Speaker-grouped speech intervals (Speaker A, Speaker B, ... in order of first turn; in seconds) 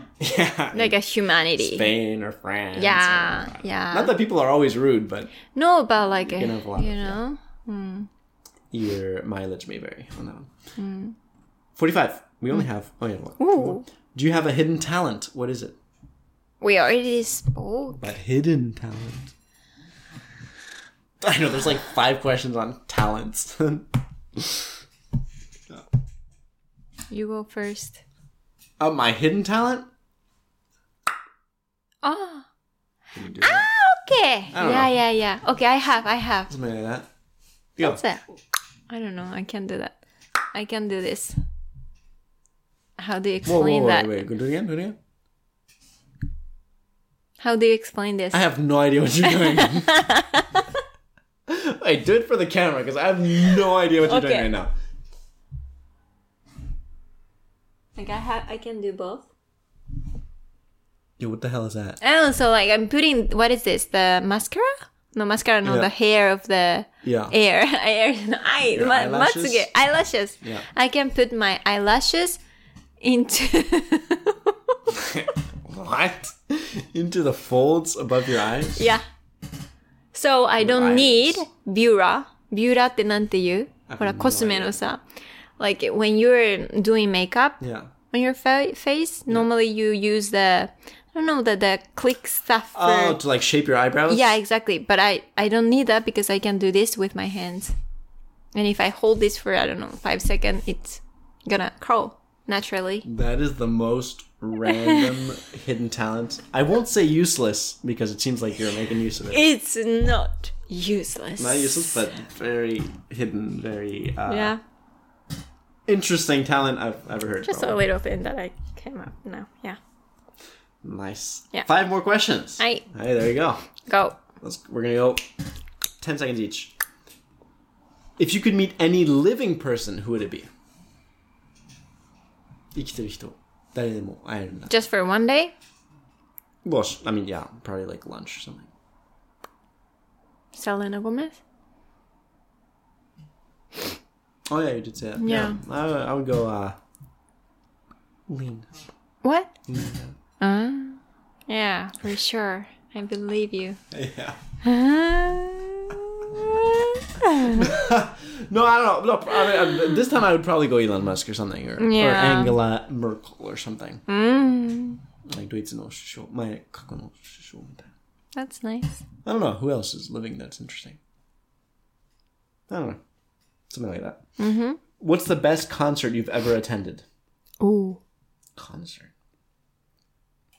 Speaker A: 0.2-1.0, 1.6-5.4, 6.2-7.2, 8.7-10.5, 11.8-15.8, 18.0-19.3, 21.2-24.8, 28.8-29.9, 33.1-33.7, 34.5-34.9, 36.5-37.1, 37.8-38.0, 43.5-45.0, 48.3-50.0, 51.5-54.7, 61.2-62.0, 65.7-65.9, 67.0-67.3, 68.7-69.7, 74.9-78.9, 80.6-81.5, 83.9-84.8, 87.6-87.9, 92.8-94.4, 103.0-109.4, 111.4-114.6, 115.9-117.8, 120.8-123.7, 124.4-125.2, 126.0-126.8, 128.2-130.5, 132.7-134.7, 136.6-138.7, 144.5-146.8, 148.3-148.7, 149.7-150.2, 153.9-154.4, 157.4-164.0, 165.3-167.9, 169.2-171.0, 172.7-173.0, 173.7-174.2, 175.0-177.0, 178.6-179.1
Speaker B: 0.7-1.9, 2.8-4.1, 5.5-8.1, 10.8-11.2, 13.4-13.8, 16.6-18.1, 27.1-28.0, 32.0-32.5, 33.4-36.5, 37.8-38.2, 38.9-40.0, 40.5-41.4, 43.0-44.2, 47.4-48.4, 49.2-50.8, 54.0-54.5, 58.0-59.3, 62.0-72.4, 73.0-74.8, 78.8-79.0, 80.1-85.0, 85.6-93.2, 94.1-97.8, 98.5-103.1, 104.7-105.2, 109.3-112.0, 114.3-114.6, 117.5-119.8, 122.6-122.8, 123.9-124.2, 134.7-135.5, 140.6-141.4, 145.2-145.6, 149.2-149.5, 150.4-153.8, 154.6-157.7, 161.8-162.6, 164.1-165.0, 168.3-169.1, 174.4-174.8, 177.6-178.0